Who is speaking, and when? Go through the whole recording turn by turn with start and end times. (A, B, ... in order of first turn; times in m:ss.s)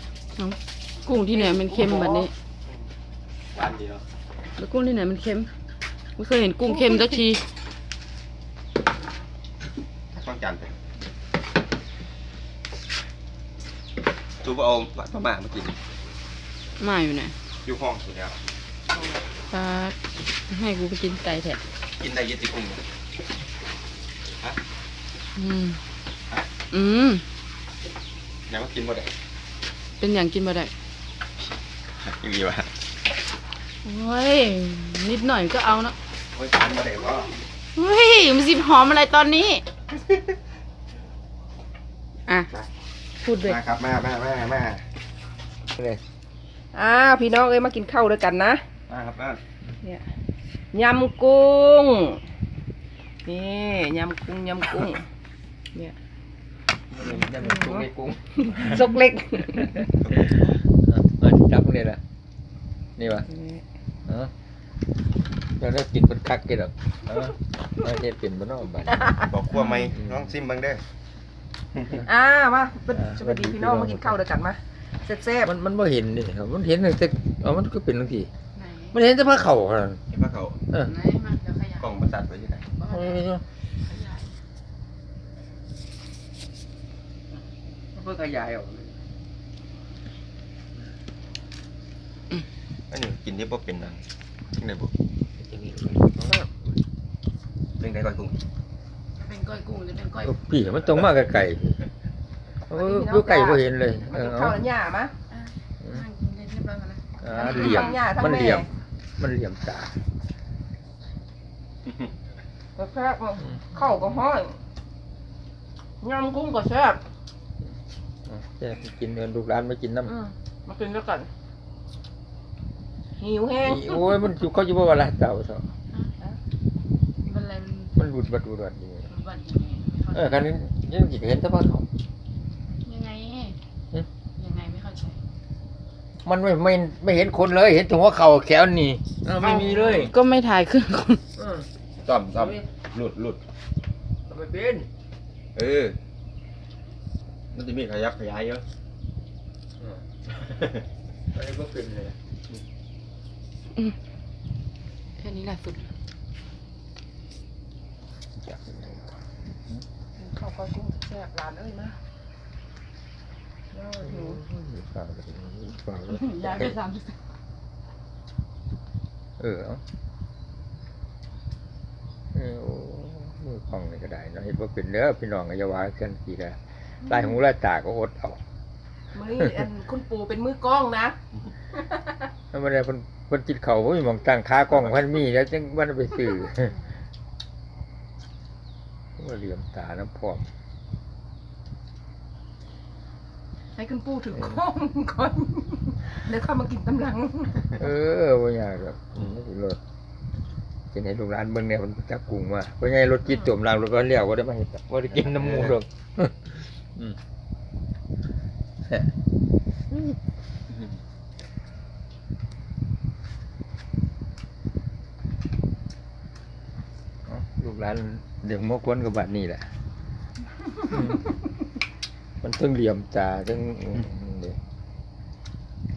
0:00.4-0:02.3 A
0:01.3-0:01.9 B
0:01.9-0:02.3 C
0:03.5-0:04.0 B
0:04.6-0:05.5 A
0:06.2-0:07.4 A
0:06.7-0:07.2 C
0:10.1-0:10.8 B
0:14.4-0:15.8 B
0:16.8-0:17.3 A
0:17.6-0:18.4 B
0:19.5-0:20.0 A
0:20.5-0:21.6 A
0:22.0-0:22.8 B
0:25.4-0:25.8 A
0:26.7-0:27.2 A
0:28.5-0:29.1 B
0:30.0-0:30.7 A
0:32.0-0:32.7 B
0:33.8-0:36.0 A
0:36.3-0:37.3 B
0:37.8-0:39.6 A
0:39.9-0:40.4 B
0:43.2-0:43.6 A
0:43.4-0:44.8 B
0:45.8-0:46.0 D
0:46.7-0:48.6 C
0:48.9-0:49.4 B
0:50.7-0:52.2 C
0:53.3-0:55.0 C
0:56.9-0:58.9 D
0:57.4-0:57.8 C
0:58.4-0:59.9 C
0:59.5-0:59.9 D
1:00.0-1:00.6 B
1:00.4-1:02.0 D
1:03.0-1:03.3 D
1:03.3-1:03.6 C
1:05.6-1:09.3 D
1:09.2-1:10.8 B
1:09.6-1:09.9 A
1:10.0-1:10.3 D
1:11.8-1:12.0 B
1:12.0-1:15.5 C
1:13.0-1:14.2 D
1:15.4-1:18.3 D
1:18.6-1:19.0 A
1:18.9-1:20.0 D
1:20.1-1:20.6 B
1:20.8-1:21.9 A
1:21.8-1:22.7 B
1:22.8-1:23.2 A
1:22.9-1:23.4 D
1:23.8-1:24.3 A
1:28.0-1:29.0 D
1:32.9-1:34.0 B
1:34.6-1:34.9 B
1:35.4-1:36.3 D
1:37.8-1:38.4 B
1:39.2-1:40.3 A
1:40.2-1:41.8 D
1:42.7-1:44.6 D
1:42.7-1:45.1 C
1:45.3-1:48.0 A
1:47.2-1:50.0 D
1:47.3-1:48.7 C
1:52.8-1:54.6 C
1:53.5-1:54.0 D
1:56.0-1:57.0 C
1:58.3-2:00.1 D
2:00.0-2:01.3 C
2:03.2-2:04.2 C
2:03.6-2:05.7 D
2:07.2-2:07.9 A
2:08.0-2:09.1 D
2:09.1-2:10.4 A
2:10.1-2:11.9 D
2:12.8-2:13.6 A
2:14.4-2:15.2 A
2:16.2-2:20.1 D
2:19.4-2:21.2 A
2:21.4-2:21.7 D
2:22.0-2:23.4 B
2:22.3-2:22.6 D
2:24.3-2:24.9 D
2:25.6-2:26.0 B
2:27.5-2:28.6 B
2:29.8-2:30.4 D
2:31.3-2:32.2 D
2:35.2-2:35.9 A
2:38.4-2:39.2 D
2:40.2-2:42.0 C
2:43.7-2:44.4 C
2:44.0-2:46.8 D
2:46.1-2:47.2 A
2:49.4-2:49.8 D
2:52.3-2:58.4 D
2:59.1-3:01.2 C
3:02.5-3:06.8 D
3:09.2-3:10.5 D
3:13.8-3:17.7 C
3:17.7-3:19.8 D
3:20.9-3:27.2 D
3:25.2-3:25.7 B
3:37.3-3:39.7 D
3:40.9-3:41.3 D
3:42.4-3:44.6 D